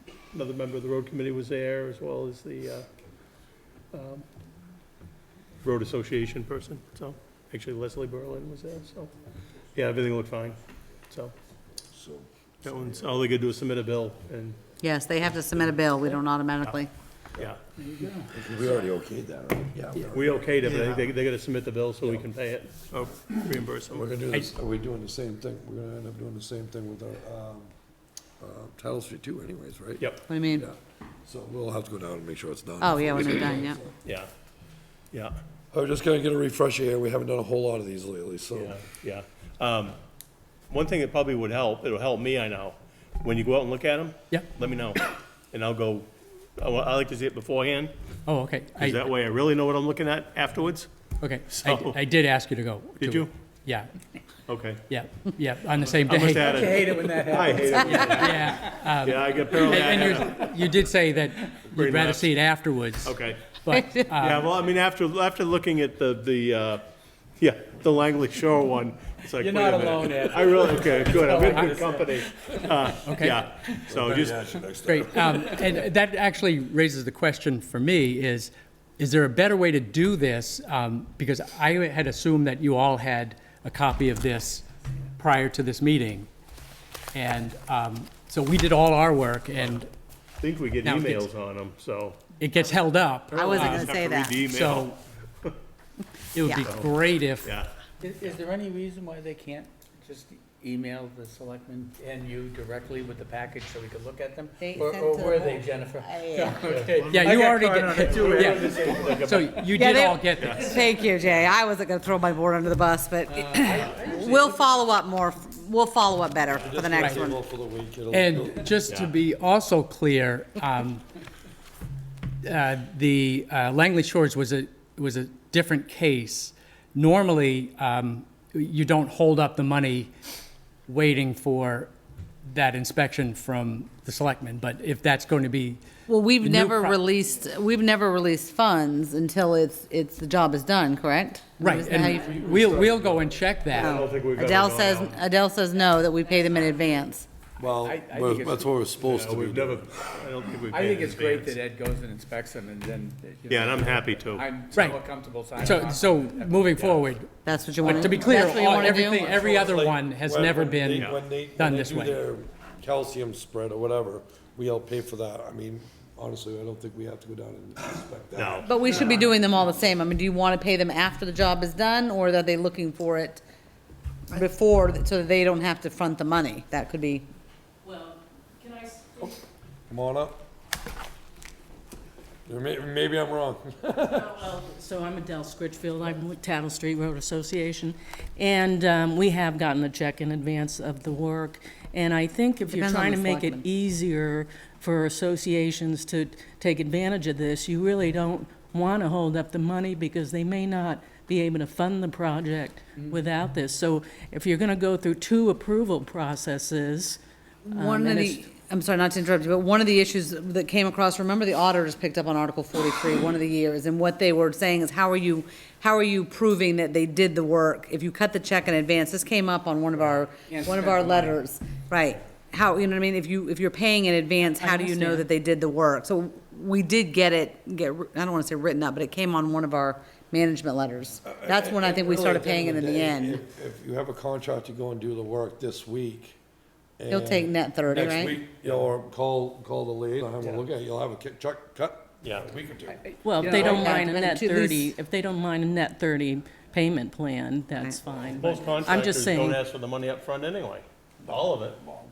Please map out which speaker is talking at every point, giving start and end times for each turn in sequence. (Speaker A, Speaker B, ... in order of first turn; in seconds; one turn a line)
Speaker A: 0.3-2.9
Speaker A: 3.9-4.3
Speaker A: 5.6-9.1
Speaker A: 9.7-10.6
Speaker A: 11.1-11.3
Speaker B: 11.9-12.3
Speaker A: 12.6-14.6
Speaker C: 14.8-16.9
Speaker D: 17.8-18.3
Speaker B: 18.3-20.4
Speaker A: 20.1-24.2
Speaker B: 23.9-27.7
Speaker B: 28.4-30.8
Speaker C: 30.3-30.7
Speaker B: 31.3-33.9
Speaker C: 32.8-33.8
Speaker A: 34.0-34.3
Speaker A: 35.1-35.4
Speaker B: 35.7-38.8
Speaker A: 38.5-40.0
Speaker A: 40.7-47.9
Speaker E: 48.3-49.0
Speaker A: 48.8-50.9
Speaker E: 51.2-53.9
Speaker A: 51.5-52.0
Speaker A: 53.0-53.3
Speaker A: 54.5-54.9
Speaker E: 54.9-56.6
Speaker A: 55.9-60.6
Speaker D: 56.3-58.5
Speaker E: 57.8-64.5
Speaker A: 61.7-62.4
Speaker A: 63.0-63.6
Speaker C: 63.7-64.1
Speaker A: 64.1-66.9
Speaker A: 67.4-74.5
Speaker D: 69.4-72.6
Speaker E: 71.2-71.8
Speaker E: 73.0-73.4
Speaker B: 73.9-75.4
Speaker E: 74.9-84.7
Speaker E: 85.2-86.3
Speaker E: 87.1-89.9
Speaker A: 90.4-92.2
Speaker E: 90.8-91.3
Speaker E: 92.4-95.0
Speaker C: 93.3-94.4
Speaker A: 93.3-95.5
Speaker E: 96.3-97.5
Speaker A: 96.6-96.9
Speaker A: 97.4-97.7
Speaker D: 98.0-109.6
Speaker C: 104.6-106.6
Speaker A: 106.6-107.5
Speaker E: 107.1-108.7
Speaker A: 108.0-109.7
Speaker E: 109.2-110.8
Speaker C: 109.7-117.4
Speaker A: 110.4-110.8
Speaker D: 113.3-114.8
Speaker B: 116.5-118.7
Speaker E: 117.0-117.3
Speaker E: 118.1-121.0
Speaker A: 118.9-119.1
Speaker E: 122.5-130.1
Speaker E: 130.9-131.9
Speaker E: 132.5-135.8
Speaker C: 136.1-142.8
Speaker E: 136.4-137.1
Speaker E: 141.6-144.0
Speaker A: 142.4-142.8
Speaker B: 142.5-142.9
Speaker A: 143.7-145.2
Speaker C: 143.8-147.3
Speaker B: 147.6-149.9
Speaker D: 147.8-148.8
Speaker A: 149.0-151.6
Speaker D: 150.7-156.9
Speaker A: 153.5-154.5
Speaker E: 155.6-162.2
Speaker C: 157.4-159.5
Speaker D: 157.8-158.5
Speaker B: 159.3-169.2
Speaker A: 160.9-161.2
Speaker A: 168.3-168.9
Speaker C: 168.7-173.4
Speaker C: 174.3-177.3
Speaker F: 177.8-179.4
Speaker B: 179.9-180.4
Speaker B: 182.5-184.4
Speaker F: 184.1-207.2
Speaker C: 192.7-193.7
Speaker D: 203.0-203.2
Speaker C: 207.7-233.4
Speaker F: 207.7-208.4
Speaker D: 220.4-221.4
Speaker F: 224.5-225.2
Speaker B: 231.2-236.4
Speaker B: 237.0-243.0
Speaker C: 237.1-238.4
Speaker A: 242.2-242.5
Speaker D: 242.9-244.0
Speaker F: 243.2-249.6
Speaker C: 243.5-244.9
Speaker A: 248.4-251.8